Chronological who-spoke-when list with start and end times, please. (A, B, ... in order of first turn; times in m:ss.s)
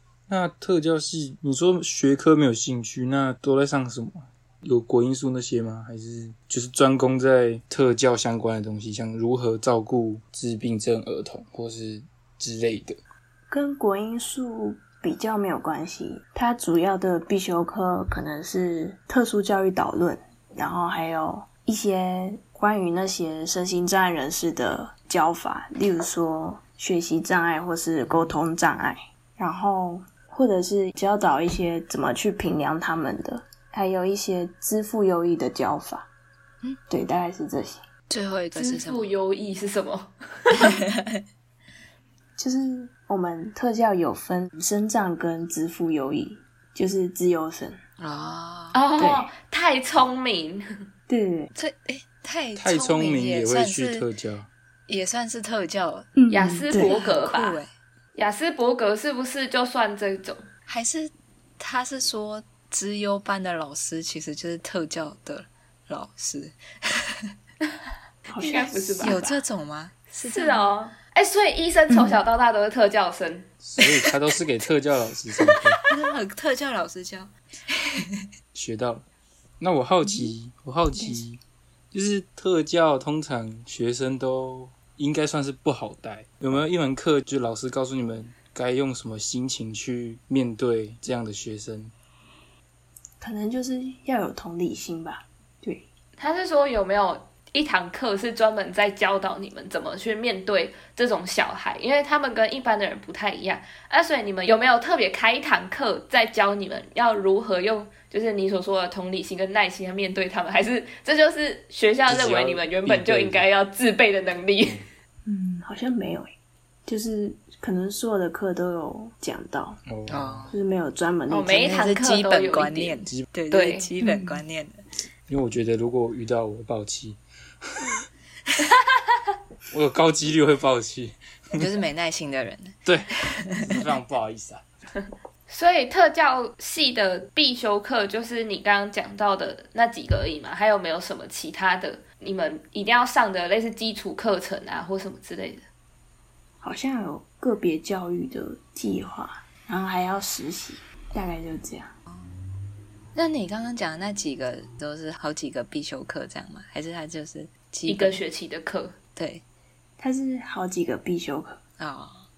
0:00.3-0:13.0 A
0:13.5-0:36.1 B
0:36.9-0:37.8 B
0:38.1-0:39.1 C
0:38.5-0:40.7 D
0:42.4-0:47.8 B
0:48.0-0:48.8 C
0:48.7-0:50.6 D
0:49.0-0:49.3 B
0:51.1-0:51.5 B
0:51.5-0:54.0 C
0:52.6-0:54.5 A
0:54.9-0:56.1 C
0:56.2-0:57.0 B
0:56.3-0:57.6 D
0:56.7-0:57.7 C
0:58.1-1:00.4 D
1:00.7-1:07.3 C
1:08.3-1:09.2 B
1:08.4-1:09.4 D
1:09.0-1:10.7 C
1:10.2-1:13.5 D
1:11.9-1:12.2 B
1:13.6-1:15.8 A
1:15.9-1:18.3 C
1:18.5-1:19.0 A
1:19.6-1:31.9 A
1:21.0-1:21.2 B
1:33.2-1:35.9 B
1:36.2-1:54.8 D
1:52.0-1:53.4 A
1:55.2-1:56.3 B
1:56.8-1:59.8 B
1:59.9-2:00.5 A
2:00.1-2:00.6 C
2:00.5-2:01.6 B
2:01.3-2:03.0 D
2:01.5-2:04.8 C
2:03.5-2:03.9 D
2:04.0-2:04.4 B
2:05.3-2:07.2 A
2:09.7-2:11.6 A
2:11.6-2:12.7 C
2:12.8-2:14.6 A
2:13.4-2:13.6 C
2:15.5-2:25.6 D
2:26.6-2:31.9 B
2:33.1-2:38.2 C
2:37.9-2:39.0 D
2:39.2-2:39.4 C
2:40.0-2:41.6 B
2:41.8-2:42.3 C